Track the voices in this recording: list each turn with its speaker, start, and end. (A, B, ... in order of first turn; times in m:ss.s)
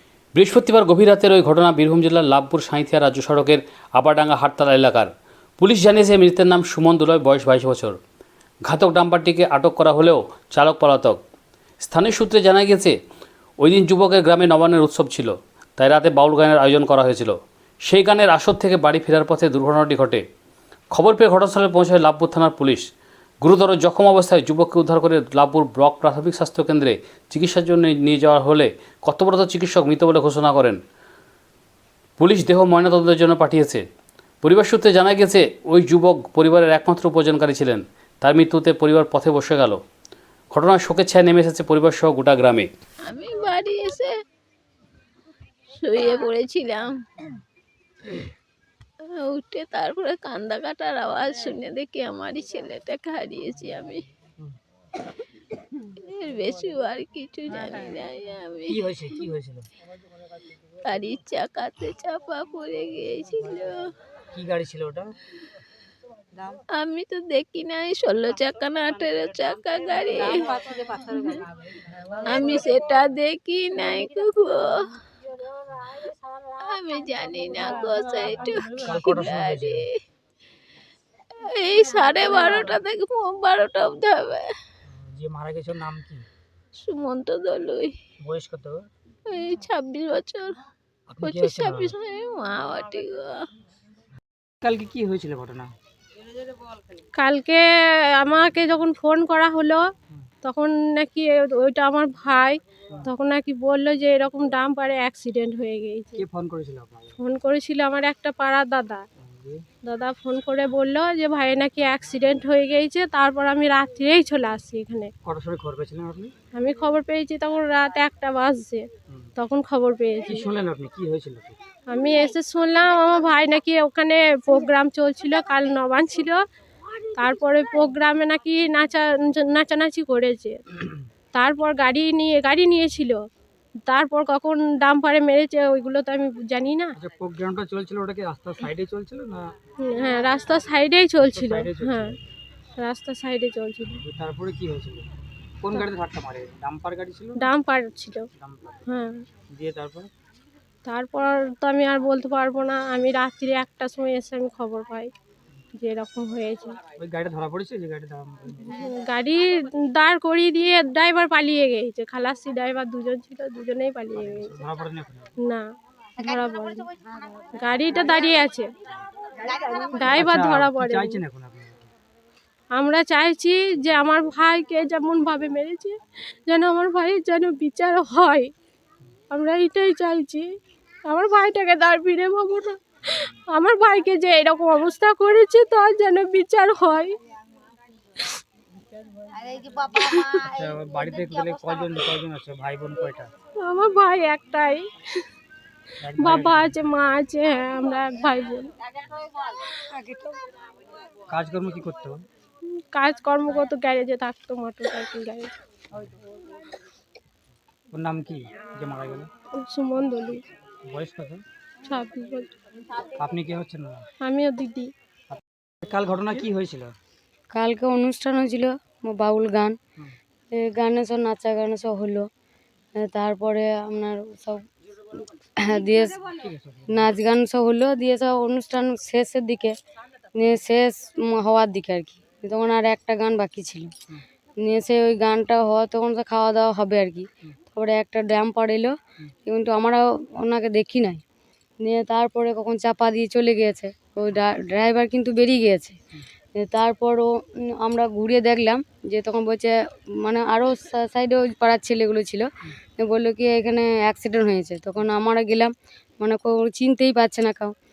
0:00.3-0:08.0 A
0:08.6-0:11.2 A
0:11.8-0:13.0 A
0:13.6-0:20.2 A
0:20.9-0:22.9 A
0:23.4-0:30.8 A
0:32.2-0:33.8 A
0:34.4-0:39.8 A
0:40.5-0:42.7 A
0:43.0-0:44.2 B
0:45.7-0:47.0 B
0:49.1-0:54.0 B
0:56.0-0:59.2 B
0:58.7-0:59.7 C
1:00.8-1:03.9 B
1:04.3-1:05.2 C
1:06.7-1:11.5 B
1:12.2-1:15.0 B
1:16.6-1:19.9 B
1:18.8-1:19.8 C
1:21.4-1:24.5 B
1:24.8-1:26.2 C
1:26.8-1:27.9 B
1:28.2-1:28.9 C
1:29.3-1:30.6 B
1:31.1-1:31.9 C
1:31.2-1:33.5 B
1:34.6-1:35.7 C
1:37.2-1:37.6 D
1:38.2-1:39.8 D
1:40.4-1:46.2 D
1:46.1-1:47.2 C
1:47.2-1:49.0 D
1:49.2-1:49.6 C
1:49.8-1:55.1 D
1:55.2-1:56.3 C
1:56.5-1:58.8 D
1:59.4-2:00.5 D
2:00.2-2:01.6 C
2:01.9-2:06.4 D
2:07.1-2:10.6 D
2:11.3-2:13.3 D
2:13.9-2:16.9 D
2:17.0-2:19.5 C
2:19.8-2:22.2 D
2:21.2-2:22.2 C
2:22.8-2:24.0 D
2:23.9-2:25.1 C
2:25.6-2:27.5 C
2:27.4-2:28.3 D
2:28.3-2:28.9 C
2:28.9-2:29.2 D
2:29.5-2:30.1 C
2:30.8-2:35.1 D
2:35.8-2:36.8 D
2:37.0-2:38.8 C
2:38.8-2:44.6 D
2:44.1-2:45.4 C
2:46.2-2:46.9 D
2:47.5-2:48.7 D
2:49.7-2:51.2 D
2:50.1-2:51.9 C
2:52.7-2:58.5 D
2:59.3-3:00.5 D
3:01.1-3:07.2 D
3:09.9-3:10.4 D
3:10.4-3:13.3 C
3:13.6-3:14.9 D
3:16.0-3:16.8 C
3:16.2-3:18.7 D
3:19.9-3:20.4 E
3:21.3-3:22.2 C
3:22.9-3:25.5 D
3:25.9-3:26.2 C
3:27.9-3:29.3 C
3:29.6-3:30.4 D
3:30.9-3:31.4 C
3:31.8-3:32.5 D
3:33.2-3:34.1 C
3:34.2-3:34.9 D
3:35.3-3:36.9 C
3:37.5-3:39.8 E
3:40.5-3:42.3 E
3:43.0-3:44.6 E
3:45.6-3:46.2 E
3:46.4-3:47.1 C
3:46.9-3:49.7 E
3:50.4-3:53.9 E
3:54.6-3:58.9 E
3:59.4-4:01.2 E
4:01.8-4:06.0 E
4:06.6-4:17.7 E